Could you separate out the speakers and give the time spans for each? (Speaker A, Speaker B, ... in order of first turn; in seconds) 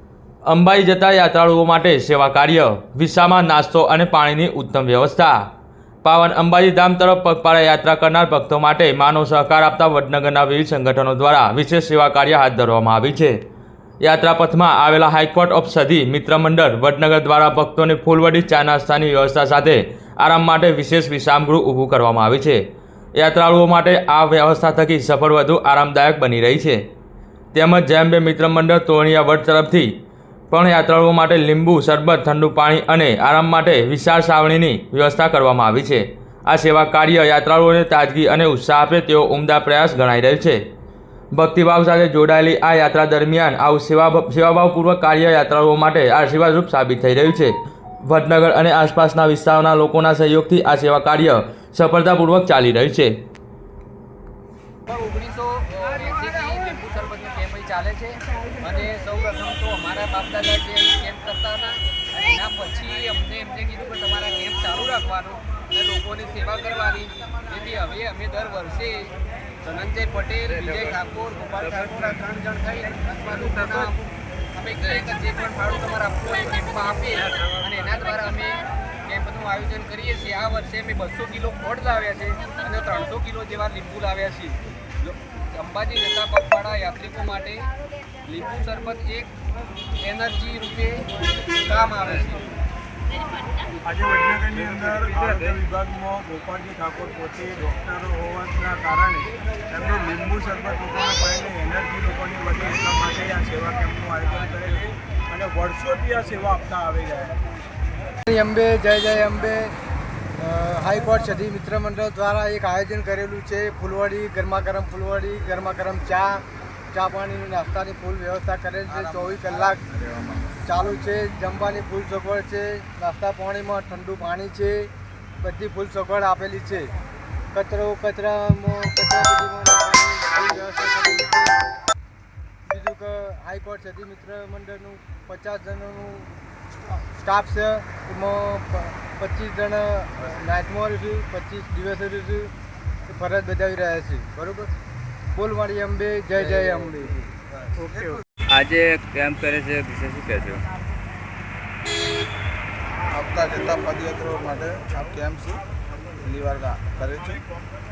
Speaker A: 0.5-5.4, 6.0-13.3, 14.0-22.6, 23.2-26.8, 27.5-29.9, 30.5-40.6, 41.4-47.5, 48.1-53.1
Speaker B: 54.9-69.1, 69.6-87.7, 88.2-89.3, 90.0-91.1, 91.7-92.6
Speaker C: 93.8-107.4
Speaker D: 94.7-95.6, 148.5-150.7
Speaker E: 108.3-109.7, 110.4-116.4, 116.9-119.8, 120.7-124.9, 125.4-126.9, 127.5-131.6, 132.7-136.3, 137.2-142.5, 143.1-144.7, 145.3-147.1
Speaker F: 118.9-120.3, 153.1-155.6, 156.2-157.4